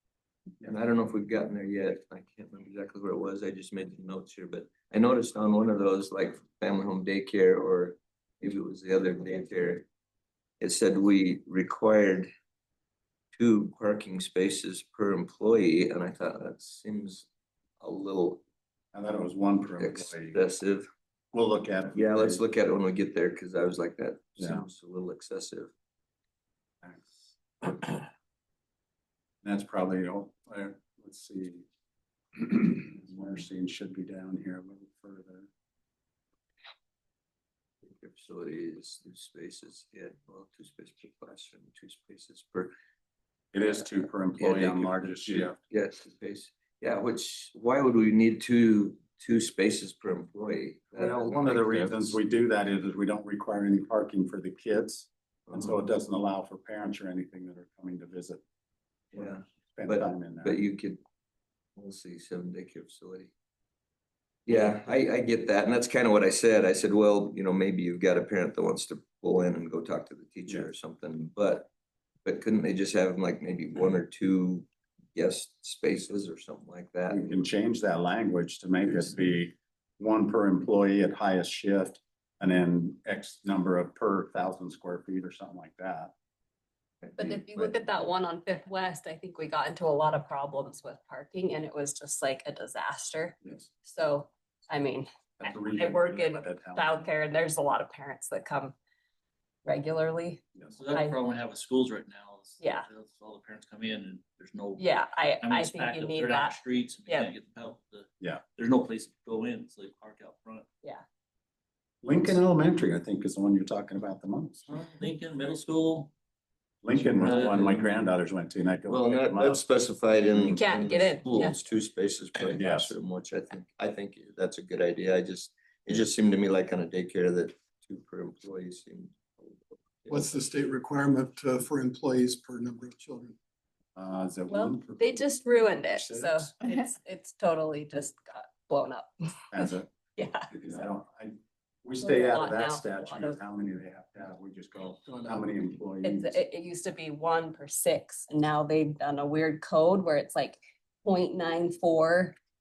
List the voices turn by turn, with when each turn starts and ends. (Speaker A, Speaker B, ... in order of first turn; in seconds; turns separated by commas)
Speaker A: 0.6-9.9, Speaker A: 10.6-12.3, Speaker A: 13.4-17.3, Speaker A: 17.8-18.4, Speaker B: 18.9-20.4, Speaker A: 19.8-20.9, Speaker B: 21.3-22.4, Speaker A: 21.9-25.7, Speaker B: 24.4-24.7, Speaker B: 29.4-31.7, Speaker B: 32.4-35.5, Speaker A: 37.8-42.7, Speaker B: 43.5-45.6, Speaker A: 44.4-52.2, Speaker B: 51.0-58.4, Speaker A: 55.5-55.8, Speaker B: 59.1-60.6, Speaker A: 59.2-61.0, Speaker A: 61.8-63.3, Speaker A: 64.5-71.7, Speaker A: 72.2-77.5, Speaker B: 77.1-86.1, Speaker A: 87.0-87.7, Speaker C: 87.2-98.8, Speaker B: 95.4-97.1, Speaker C: 99.7-101.2, Speaker D: 100.7-110.7, Speaker C: 102.6-102.9, Speaker C: 104.8-107.3, Speaker B: 112.0-114.7, Speaker D: 114.7-116.1, Speaker B: 116.8-119.6, Speaker D: 116.9-118.0, Speaker A: 118.9-130.3, Speaker C: 120.5-121.6, Speaker B: 122.5-122.9, Speaker E: 130.1-133.4, Speaker B: 133.9-135.2, Speaker C: 134.5-139.4, Speaker B: 135.8-136.5, Speaker B: 139.5-139.9, Speaker C: 140.2-140.5, Speaker B: 140.5-146.4, Speaker C: 142.0-143.4, Speaker C: 146.0-152.4